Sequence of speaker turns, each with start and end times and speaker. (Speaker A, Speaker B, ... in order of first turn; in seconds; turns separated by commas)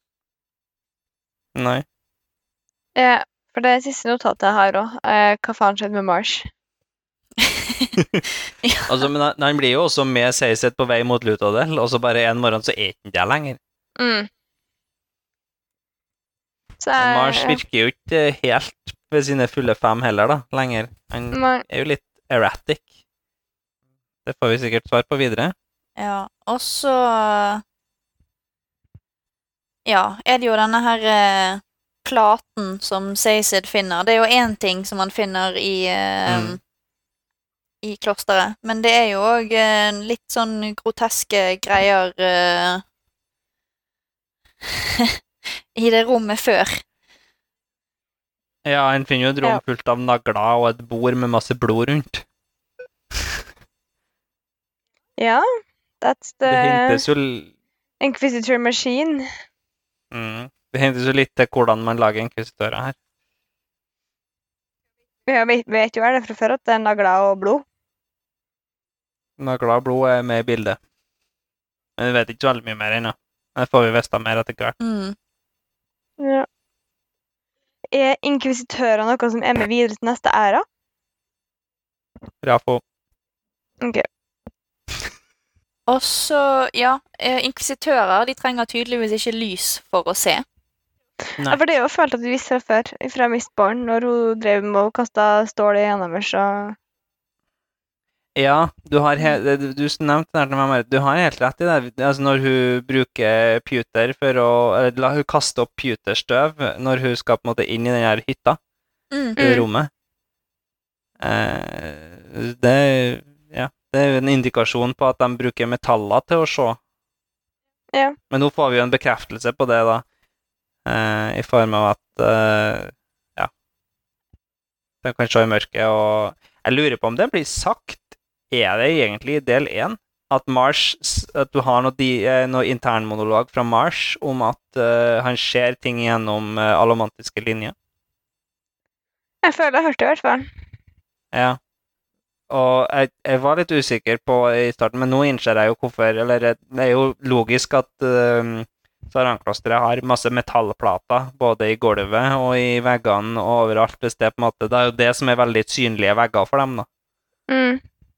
Speaker A: 1.6-1.9, Speaker B: 3.0-6.5, Speaker C: 7.4-8.0, Speaker C: 8.6-8.9, Speaker A: 8.9-13.6, Speaker B: 14.0-14.3, Speaker B: 16.8-17.6, Speaker A: 17.0-22.9, Speaker B: 21.3-21.6, Speaker A: 24.3-25.5, Speaker C: 26.0-27.6, Speaker C: 29.9-36.6, Speaker A: 36.3-36.6, Speaker C: 37.8-42.8, Speaker C: 44.7-45.2, Speaker C: 45.8-46.8, Speaker A: 48.6-52.2, Speaker B: 55.2-55.5, Speaker B: 56.0-57.0, Speaker A: 56.5-57.5, Speaker B: 58.0-59.3, Speaker A: 60.1-63.0, Speaker B: 65.3-67.6, Speaker A: 69.4-70.8, Speaker A: 72.0-74.8, Speaker C: 74.8-75.2, Speaker B: 76.2-76.5, Speaker B: 77.9-80.7, Speaker A: 82.4-82.8, Speaker B: 83.8-84.1, Speaker C: 85.9-90.4, Speaker B: 91.5-96.8, Speaker A: 98.4-108.6, Speaker C: 109.1-109.4, Speaker B: 109.4-109.7, Speaker A: 109.4-109.9, Speaker A: 111.2-116.8, Speaker A: 118.3-120.0, Speaker A: 120.9-123.5, Speaker A: 125.0-137.8, Speaker B: 139.4-140.5, Speaker A: 141.3-141.6, Speaker A: 142.5-156.9, Speaker B: 157.5-157.8